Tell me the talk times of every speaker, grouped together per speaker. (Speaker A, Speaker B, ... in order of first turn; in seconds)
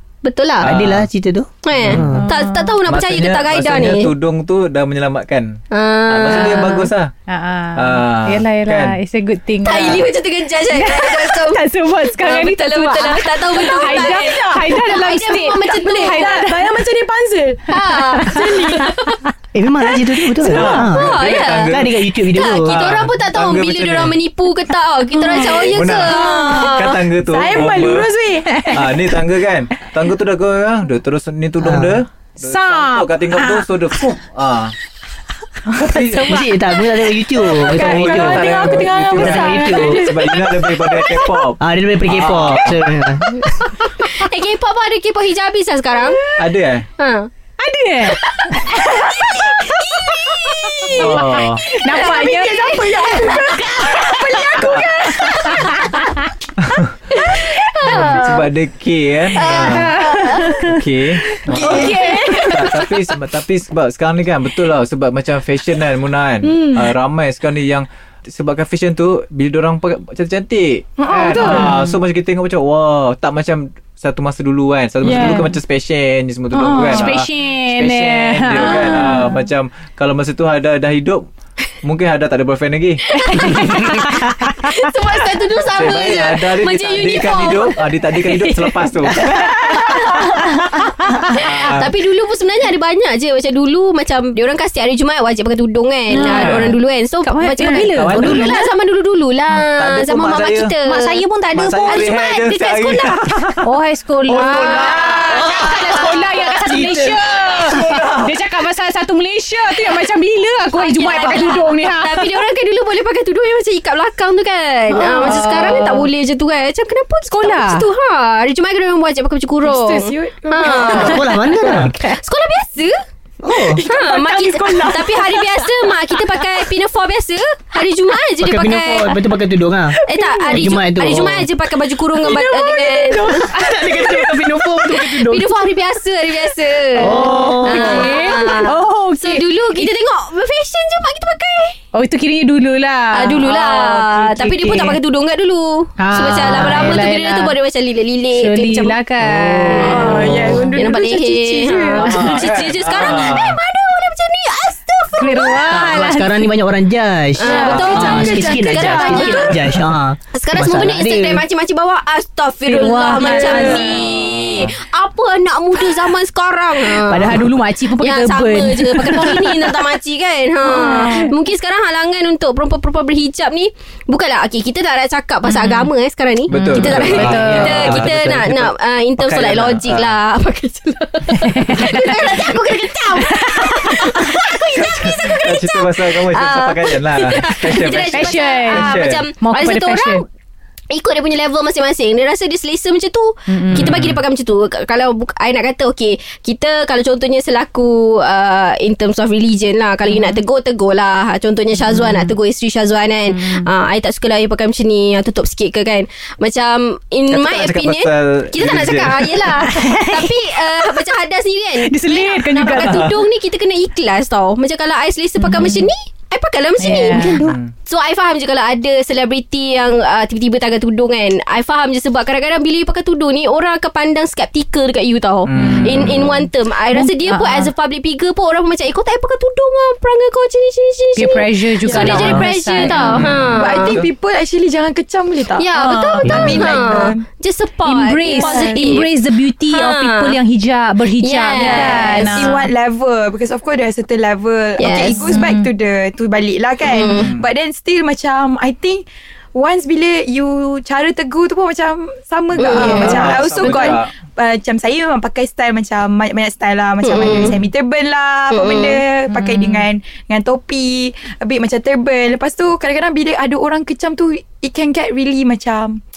Speaker A: 0.2-0.7, 1.6-4.1, 5.7-6.9, 9.6-11.6, 12.2-16.4, 17.7-19.2, 20.7-27.0, 44.0-46.3, 47.0-47.3, 48.0-51.2, 52.0-53.4, 57.1-58.5, 59.4-60.5, 61.5-62.9, 83.1-87.8, 89.7-90.4, 91.3-101.2, 101.8-103.2, 110.8-123.0, 123.8-129.2, 130.1-133.5, 135.0-141.8, 143.1-156.1, 157.4-159.6, 160.3-167.4, 168.0-190.2, 190.9-234.0, 235.6-239.1, 239.7-240.4, 241.2-242.7, 244.8-245.4, 246.9-247.3, 252.6-253.9, 257.0-257.6, 258.5-259.0
Speaker B: 0.6-1.1, 1.7-2.2, 2.8-7.1, 7.8-9.0, 20.4-24.2, 25.7-28.1, 28.7-34.7, 35.7-36.5, 37.6-43.1, 46.4-46.9, 50.9-51.6, 54.6-55.4, 56.6-57.0, 57.8-81.2, 81.8-83.0, 85.7-89.9, 91.3-91.9, 96.2-96.8, 97.9-98.7, 99.6-100.7, 101.5-103.7, 104.3-106.0, 107.5-108.3, 152.0-153.6, 157.6-158.2, 164.2-164.7, 176.5-180.2, 184.7-189.2, 193.7-194.2, 207.3-209.4, 212.7-213.2, 217.4-217.7, 225.4-226.4, 233.2-234.1, 247.1-247.5, 252.6-254.1
Speaker C: 0.6-2.2, 19.5-23.0, 31.6-32.0, 36.2-40.1, 41.6-43.5, 89.1-89.6, 98.1-98.4, 106.6-107.2, 120.8-121.9, 123.4-123.8, 128.4-131.5, 133.4-135.5, 136.9-138.2, 150.2-150.6, 155.7-161.4, 176.9-178.1, 236.2-236.8
Speaker D: 2.1-2.7, 7.3-10.1, 10.7-16.7, 17.8-19.1, 25.1-25.6, 28.5-29.1, 32.4-33.7, 36.0-36.4, 38.5-38.8, 39.4-39.8, 47.6-56.3, 57.4-58.1, 59.4-62.8, 71.3-71.8, 76.8-79.3, 83.2-84.7, 89.3-91.4, 96.1-98.6, 100.8-102.5, 103.6-112.3, 114.9-116.1, 117.3-117.8, 120.9-122.2, 123.8-125.8, 130.0-130.6, 133.5-134.7, 137.0-139.9, 141.9-145.0, 146.0-147.5, 148.3-150.2, 155.2-156.5, 157.5-158.0, 162.7-164.2, 167.0-169.9, 170.6-171.3, 175.4-175.9, 176.5-177.9, 181.3-184.4, 188.1-190.2, 193.5-193.9, 200.1-200.4, 201.8-202.3, 203.3-203.7, 209.6-210.5, 211.8-213.1, 215.4-215.9, 216.8-217.6, 225.6-226.1, 226.9-227.7, 231.2-233.2, 237.8-242.5, 244.9-245.7, 252.8-253.7, 259.3-259.9
Speaker E: 13.6-14.6, 15.8-18.9, 25.1-28.9, 37.6-41.4, 51.9-55.6, 61.5-62.6, 66.4-66.9, 71.0-71.8, 75.0-75.6, 76.5-77.1, 78.9-79.3, 115.3-115.6, 119.6-121.4, 123.8-125.1, 132.2-133.5, 149.8-152.3, 157.4-159.6, 163.2-163.9, 231.8-237.2, 238.3-239.0, 241.5-266.0